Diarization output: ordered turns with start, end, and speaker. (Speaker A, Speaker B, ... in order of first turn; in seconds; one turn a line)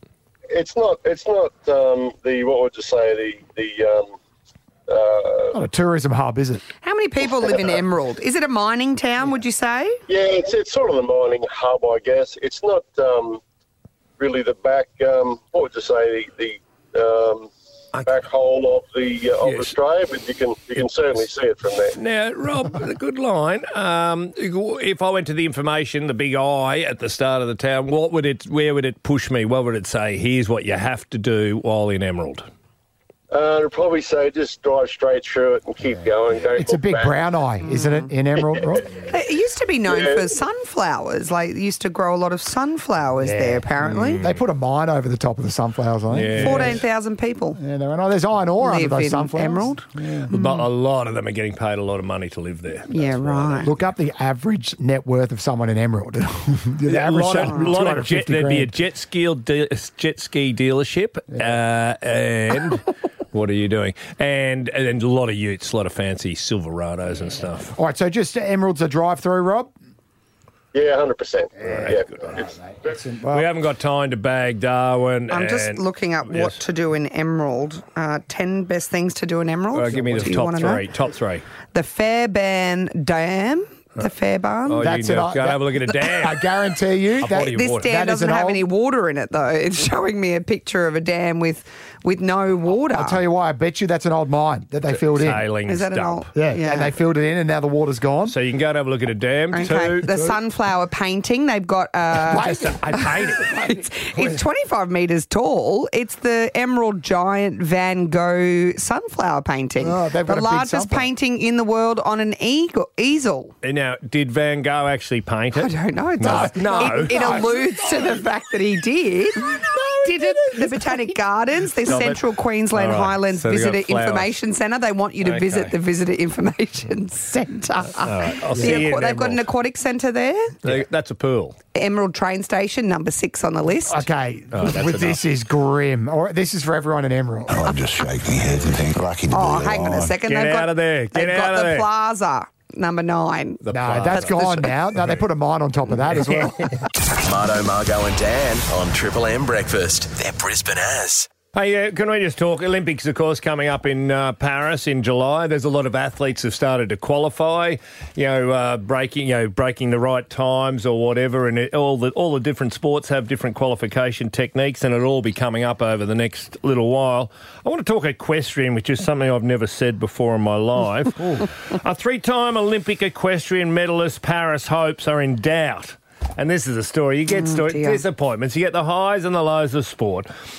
Speaker A: 0.5-4.2
Speaker A: 4.9-5.6
Speaker B: 5.5-6.6
Speaker C: 6.8-10.0
Speaker A: 10.1-13.4
Speaker A: 14.2-17.5
Speaker D: 17.9-18.2
Speaker A: 18.0-22.0
Speaker D: 19.4-19.7
Speaker D: 21.9-32.5
Speaker A: 33.3-37.2
Speaker B: 36.5-38.9
Speaker C: 37.6-38.1
Speaker A: 38.4-38.8
Speaker C: 39.1-44.2
Speaker A: 39.9-40.2
Speaker B: 43.2-46.8
Speaker D: 43.8-44.4
Speaker D: 46.1-46.8
Speaker C: 46.4-47.6
Speaker B: 47.6-50.3
Speaker C: 48.6-50.7
Speaker D: 50.3-53.7
Speaker C: 52.9-53.7
Speaker B: 53.6-58.7
Speaker D: 56.9-67.7
Speaker B: 67.8-69.7
Speaker A: 70.7-72.5
Speaker B: 71.6-73.5
Speaker D: 73.3-76.6
Speaker C: 75.3-80.9
Speaker D: 79.7-81.4
Speaker B: 79.9-80.3
Speaker C: 81.7-84.8
Speaker D: 84.7-86.4
Speaker B: 84.8-88.7
Speaker D: 87.2-87.9
Speaker C: 87.3-93.2
Speaker B: 92.9-95.4
Speaker D: 94.9-96.2
Speaker C: 95.7-96.9
Speaker B: 96.3-98.4
Speaker D: 98.3-100.2
Speaker C: 99.5-113.5
Speaker B: 102.2-104.4
Speaker B: 109.8-111.1
Speaker D: 113.6-117.4
Speaker C: 115.5-130.6
Speaker B: 116.2-118.2
Speaker B: 119.4-121.0
Speaker D: 121.8-122.2
Speaker D: 122.7-124.3
Speaker D: 125.2-125.7
Speaker D: 128.0-129.4
Speaker B: 128.5-128.8
Speaker D: 130.6-131.6
Speaker C: 131.7-134.0
Speaker B: 133.9-137.7
Speaker D: 134.5-135.2
Speaker E: 137.7-139.9
Speaker C: 139.3-144.7
Speaker D: 140.2-141.9
Speaker D: 143.6-144.6
Speaker B: 143.7-146.7
Speaker F: 147.2-151.3
Speaker D: 151.5-180.3
Speaker C: 177.3-178.0